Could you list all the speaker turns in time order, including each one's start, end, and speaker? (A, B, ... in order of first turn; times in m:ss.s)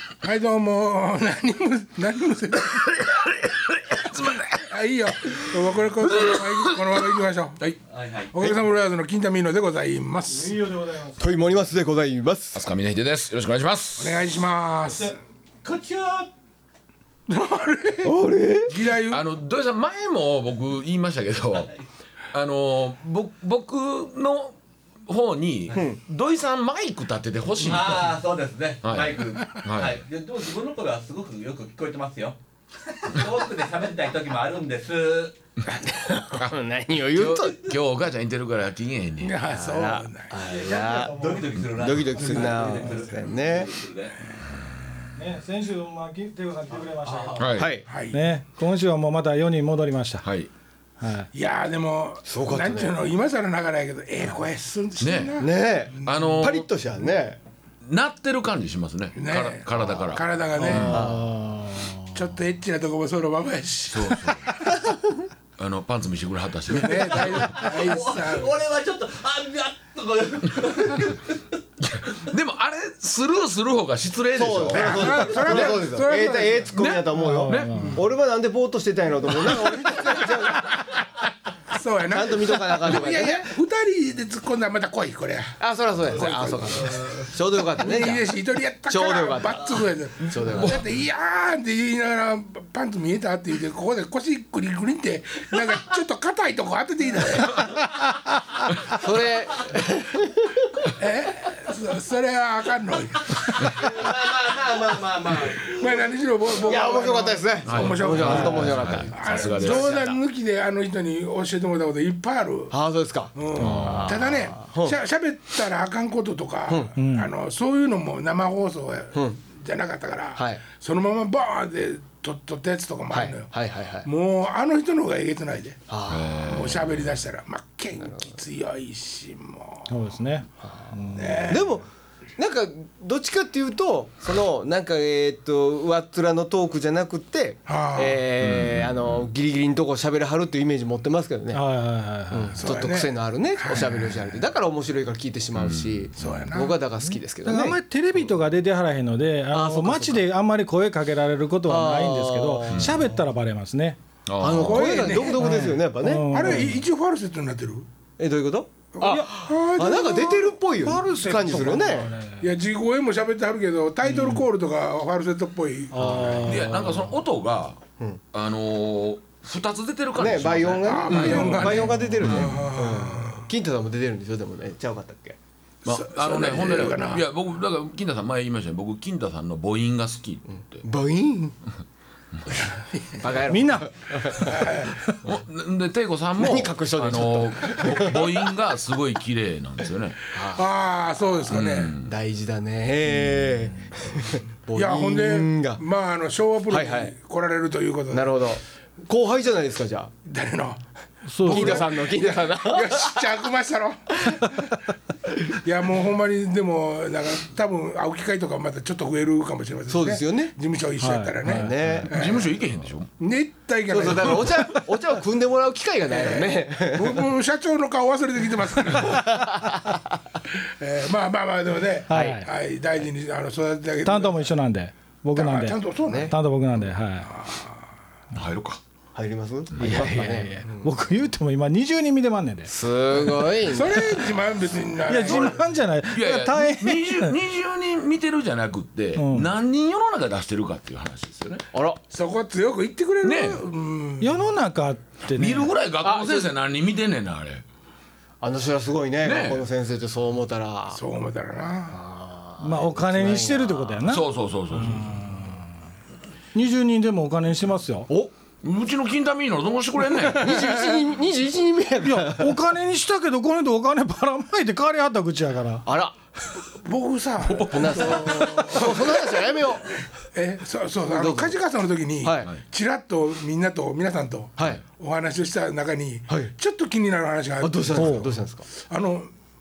0:00.2-0:02.9 A
0:04.5-0:07.6 A
0:07.9-0:08.4 B
0:08.3-0:10.6 A
0:10.3-0:11.3 C
0:11.2-0:12.6 D
0:12.5-0:14.2 E
0:14.0-0:15.2 A
0:15.0-0:16.3 C
0:17.3-0:18.1 A
0:18.0-0:18.7 D
0:18.7-0:19.2 A
0:19.1-0:21.7 E
0:22.3-0:28.1 E
0:25.7-0:26.0 D
0:27.6-0:32.4 B
0:28.8-0:30.0 E
0:32.9-0:35.3 B
0:35.8-0:37.7 D
0:37.1-0:39.3 E
0:39.2-0:40.3 A
0:39.5-0:43.7 D
0:40.4-0:41.6 C
0:40.6-0:44.2 B
0:45.1-0:50.2 C
0:46.8-0:47.4 B
0:47.4-0:47.7 E
0:47.5-0:47.8 D
0:47.9-0:48.2 A
0:50.2-0:50.5 E
0:51.0-0:51.3 C
0:51.3-0:56.2 A
0:52.2-0:52.9 D
0:55.0-0:55.4 E
0:55.4-0:57.4 D
0:55.9-0:56.7 E
0:57.8-1:01.0 E
0:59.2-1:01.0 A
1:00.6-1:02.1 C
1:00.7-1:01.3 D
1:02.1-1:04.5 A
1:03.9-1:04.7 E
1:05.6-1:07.6 E
1:06.7-1:08.5 A
1:07.1-1:11.4 B
1:11.8-1:15.7 E
1:14.4-1:20.7 D
1:14.7-1:16.7 A
1:16.8-1:17.9 E
1:17.1-1:18.0 C
1:17.7-1:18.0 A
1:21.7-1:37.7 A
1:22.1-1:23.5 D
1:25.6-1:30.8 D
1:38.8-1:40.8 D
1:41.0-1:43.6 A
1:43.7-1:45.9 D
1:45.6-1:52.7 A
1:46.6-1:50.2 D
1:47.6-1:50.0 E
1:48.2-1:48.8 C
1:52.7-1:55.0 D
1:53.3-2:03.5 A
1:53.6-1:54.0 E
1:57.0-1:57.3 C
2:00.3-2:00.6 D
2:03.1-2:04.1 D
2:04.0-2:05.8 A
2:05.9-2:06.5 D
2:06.1-2:07.2 E
2:06.4-2:09.9 A
2:09.9-2:11.6 C
2:10.6-2:21.6 D
2:11.1-2:11.8 A
2:17.7-2:18.2 A
2:18.4-2:19.3 E
2:21.5-2:22.6 C
2:22.3-2:27.8 D
2:22.6-2:24.3 A
2:25.6-2:26.4 E
2:26.2-2:26.8 A
2:27.0-2:34.0 C
2:29.5-2:30.2 D
2:31.7-2:33.1 D
2:32.7-2:33.0 E
2:34.3-2:35.1 E
2:34.4-2:36.7 D
2:34.5-2:35.6 A
2:35.2-2:36.8 C
2:36.3-2:37.9 A
2:38.2-2:42.1 D
2:38.9-2:40.6 A
2:40.8-2:42.5 C
2:42.4-2:46.4 A
2:45.9-2:47.2 C
2:46.0-2:46.6 D
2:46.4-2:47.8 E
2:48.3-2:52.6 E
2:50.2-2:55.4 D
2:50.8-2:53.5 A
2:51.5-2:52.2 C
2:55.8-2:57.2 A
2:55.8-3:00.8 E
3:00.8-3:01.5 D
3:02.7-3:03.2 A
3:03.2-3:04.8 D
3:03.5-3:05.2 C
3:04.4-3:05.0 A
3:05.2-3:10.2 E
3:06.4-3:08.5 D
3:10.3-3:10.6 D
3:10.4-3:11.9 A
3:11.5-3:12.1 E
3:11.7-3:15.8 D
3:14.7-3:18.4 A
3:16.7-3:17.1 D
3:18.1-3:20.1 D
3:20.2-3:20.8 A
3:21.3-3:21.9 C
3:21.3-3:24.7 A
3:21.4-3:23.2 D
3:24.2-3:24.5 D
3:25.4-3:32.6 A
3:29.9-3:30.5 D
3:31.0-3:32.1 C
3:31.4-3:32.2 D
3:32.0-3:33.1 E
3:33.2-3:34.7 A
3:33.9-3:37.2 D
3:36.1-3:39.4 A
3:39.1-3:40.0 D
3:40.4-3:44.5 A
3:42.1-3:42.5 C
3:42.1-3:42.4 D
3:44.0-3:45.8 C
3:45.3-3:46.3 A
3:46.0-3:46.3 D
3:46.3-3:47.3 C
3:47.2-3:47.7 A
3:48.3-3:48.8 E
3:49.1-3:50.9 D
3:49.8-3:50.1 E
3:49.8-3:52.7 C
3:52.7-3:54.1 D
3:53.6-3:55.7 A
3:55.1-3:57.4 C
3:56.1-4:01.6 E
3:59.2-3:59.5 C
4:01.7-4:02.0 D
4:02.1-4:04.5 A
4:03.2-4:03.6 E
4:04.2-4:05.7 C
4:05.4-4:07.6 E
4:06.0-4:06.5 D
4:08.4-4:11.0 D
4:09.2-4:09.6 E
4:10.9-4:12.0 A
4:11.9-4:14.1 D
4:12.6-4:15.6 C
4:14.0-4:15.2 E
4:16.5-4:18.1 C
4:18.6-4:20.6 E
4:20.2-4:21.1 A
4:20.3-4:22.6 D
4:22.0-4:25.8 C
4:25.8-4:26.1 D
4:26.6-4:39.3 A
4:27.4-4:28.4 E
4:27.7-4:30.0 D
4:31.1-4:31.6 D
4:32.2-4:32.5 D
4:37.6-4:38.7 D
4:38.0-4:38.3 C